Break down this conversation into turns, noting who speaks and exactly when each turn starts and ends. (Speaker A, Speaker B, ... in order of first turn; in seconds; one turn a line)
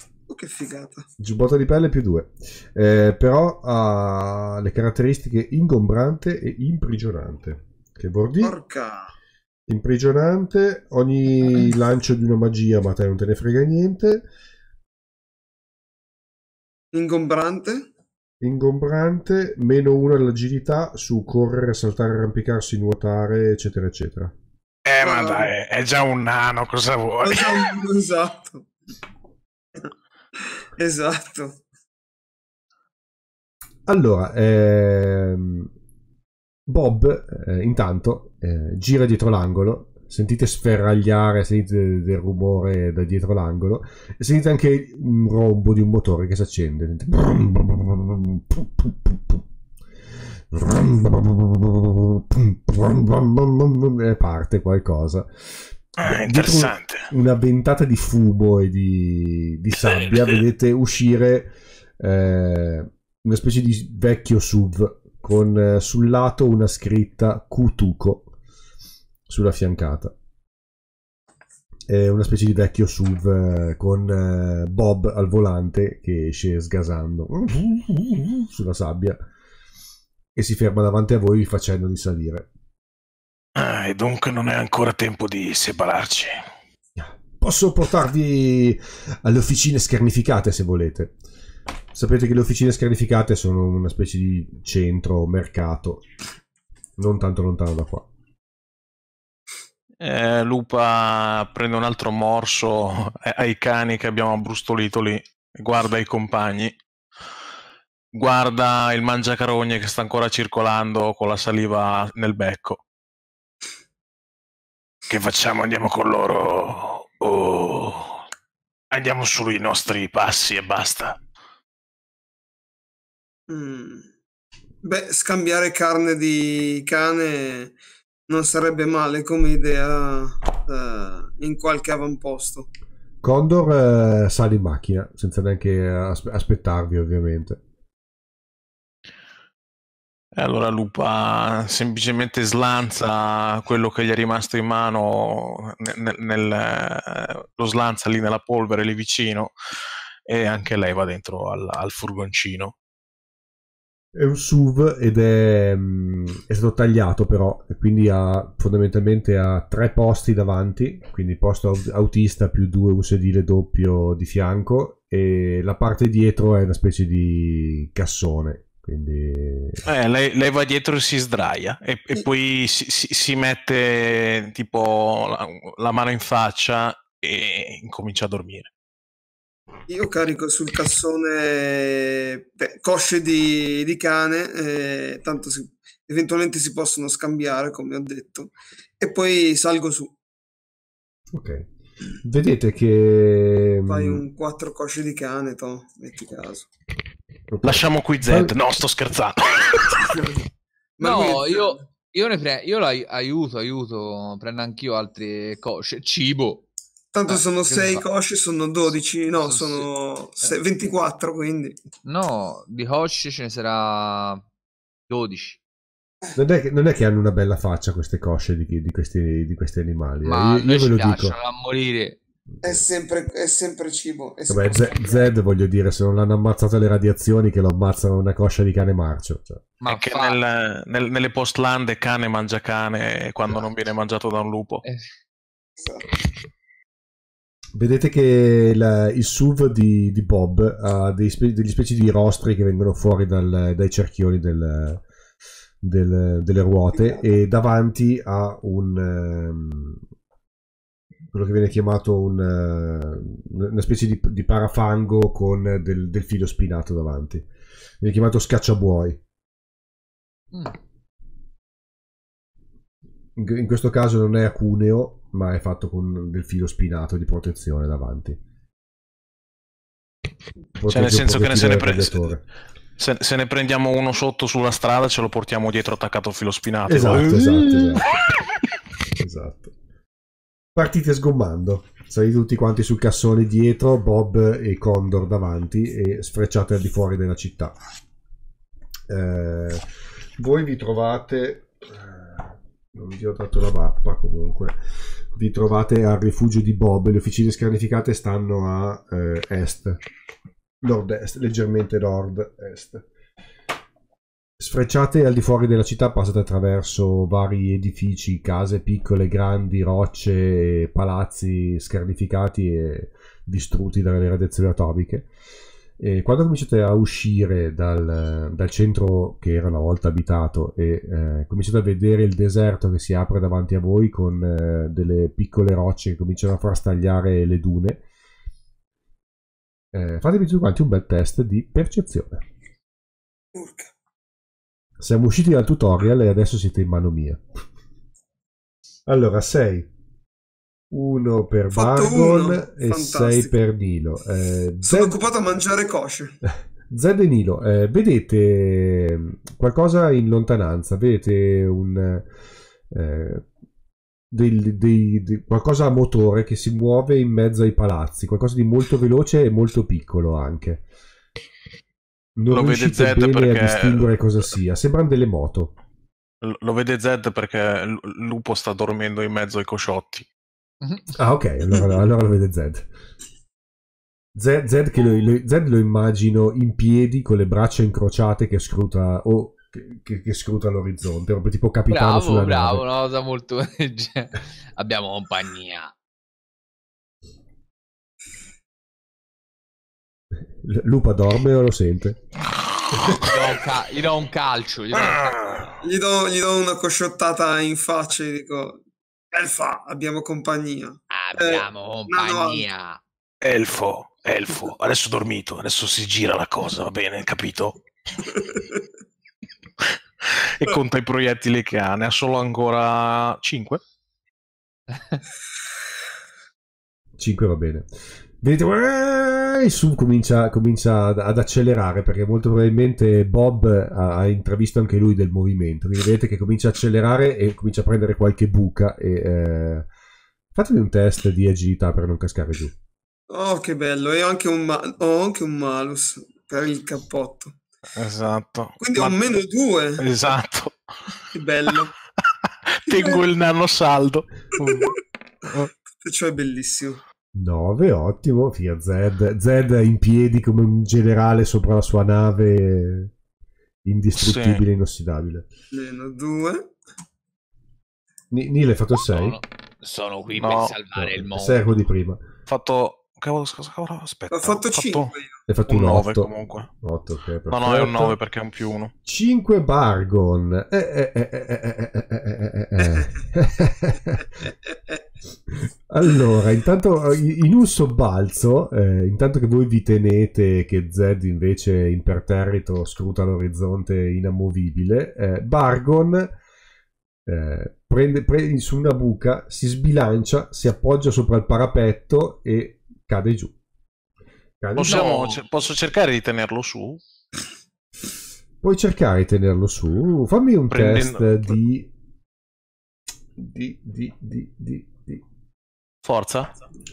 Speaker A: 0.3-1.1
Speaker B: 1.2-8.6
Speaker A: 8.4-9.1
Speaker B: 9.7-14.2
Speaker A: 16.9-17.9
Speaker B: 18.4-24.3
Speaker C: 24.8-27.8
Speaker A: 25.0-25.5
Speaker A: 27.2-28.7
Speaker A: 30.8-31.6
Speaker B: 33.9-35.7
Speaker B: 36.7-49.4
Speaker B: 50.5-68.3
Speaker C: 56.0-57.1
Speaker B: 69.3-70.1
Speaker B: 71.9-79.2
Speaker B: 80.3-82.5
Speaker C: 83.5-86.4
Speaker B: 86.9-91.2
Speaker B: 91.9-96.0
Speaker B: 97.0-98.1
Speaker C: 100.0-106.8
Speaker C: 108.1-112.8
Speaker C: 115.1-118.3
Speaker C: 118.9-121.2
Speaker A: 123.5-124.1
Speaker A: 124.8-127.8
Speaker A: 128.3-132.7
Speaker B: 133.2-137.6
Speaker C: 140.3-149.5
Speaker C: 150.2-152.7
Speaker B: 154.1-169.8
Speaker C: 169.8-178.7
Speaker A: 179.9-190.1
Speaker B: 191.3-191.7
Speaker B: 192.2-194.2
Speaker A: 193.9-196.7
Speaker B: 197.5-198.5
Speaker C: 197.6-200.2
Speaker A: 200.1-200.4
Speaker A: 201.0-201.8
Speaker D: 201.0-206.7
Speaker A: 207.1-211.8
Speaker D: 207.3-208.0
Speaker D: 209.4-209.8
Speaker D: 212.0-214.4
Speaker D: 215.1-215.6
Speaker B: 216.3-221.4
Speaker D: 220.2-222.2
Speaker A: 222.6-225.3
Speaker B: 224.5-229.6
Speaker D: 229.8-230.4
Speaker C: 229.8-234.8
Speaker D: 234.8-235.1
Speaker A: 235.8-236.1
Speaker B: 237.7-245.0
Speaker B: 245.8-250.0
Speaker A: 246.9-247.2
Speaker B: 251.3-257.5
Speaker B: 258.0-259.2
Speaker B: 263.4-268.4
Speaker B: 270.8-272.4
Speaker C: 270.9-272.3
Speaker C: 273.0-278.2
Speaker B: 276.9-278.1
Speaker B: 279.2-279.7
Speaker B: 280.7-287.7
Speaker B: 289.1-289.9
Speaker B: 290.4-294.8
Speaker B: 295.3-300.0
Speaker B: 300.8-303.1
Speaker B: 304.6-315.3
Speaker B: 316.0-328.0
Speaker B: 329.9-332.4
Speaker A: 333.5-333.9
Speaker B: 335.0-337.4
Speaker B: 339.1-339.9
Speaker B: 340.9-345.2
Speaker A: 341.7-343.5
Speaker A: 344.9-346.4
Speaker B: 346.4-352.3
Speaker B: 352.9-353.4
Speaker B: 354.3-360.8
Speaker B: 362.4-365.7
Speaker C: 362.5-364.1
Speaker C: 366.4-370.2
Speaker B: 371.1-372.9
Speaker B: 374.3-382.8
Speaker D: 381.9-385.9
Speaker B: 390.6-392.2
Speaker C: 392.6-393.3
Speaker B: 393.0-393.2
Speaker D: 393.1-395.3
Speaker C: 394.9-395.8
Speaker A: 395.8-402.7
Speaker D: 401.1-403.0
Speaker C: 403.4-407.8
Speaker A: 408.3-408.8
Speaker C: 409.8-413.8
Speaker B: 417.2-417.9
Speaker B: 418.4-429.9
Speaker B: 430.5-432.7
Speaker A: 433.3-437.6
Speaker C: 437.9-439.2
Speaker A: 438.8-440.0
Speaker C: 440.0-441.2
Speaker A: 441.3-441.9
Speaker C: 442.2-445.7
Speaker A: 442.9-443.2
Speaker A: 444.6-445.0
Speaker A: 445.9-447.0
Speaker B: 447.3-453.1
Speaker B: 453.8-455.4
Speaker C: 454.1-454.6
Speaker A: 455.7-456.7
Speaker B: 458.3-459.4
Speaker D: 459.1-461.6
Speaker C: 460.4-460.7
Speaker B: 460.9-462.2
Speaker C: 462.5-465.1
Speaker A: 464.3-465.4
Speaker B: 465.5-468.1
Speaker C: 465.7-466.7
Speaker C: 467.5-468.9
Speaker B: 469.1-474.3
Speaker A: 472.8-473.1
Speaker B: 475.5-486.3
Speaker B: 487.2-493.5
Speaker B: 494.6-495.2
Speaker C: 494.8-497.0
Speaker D: 494.8-495.4
Speaker B: 498.6-501.9
Speaker C: 500.7-501.6
Speaker B: 503.4-505.2
Speaker C: 506.0-506.5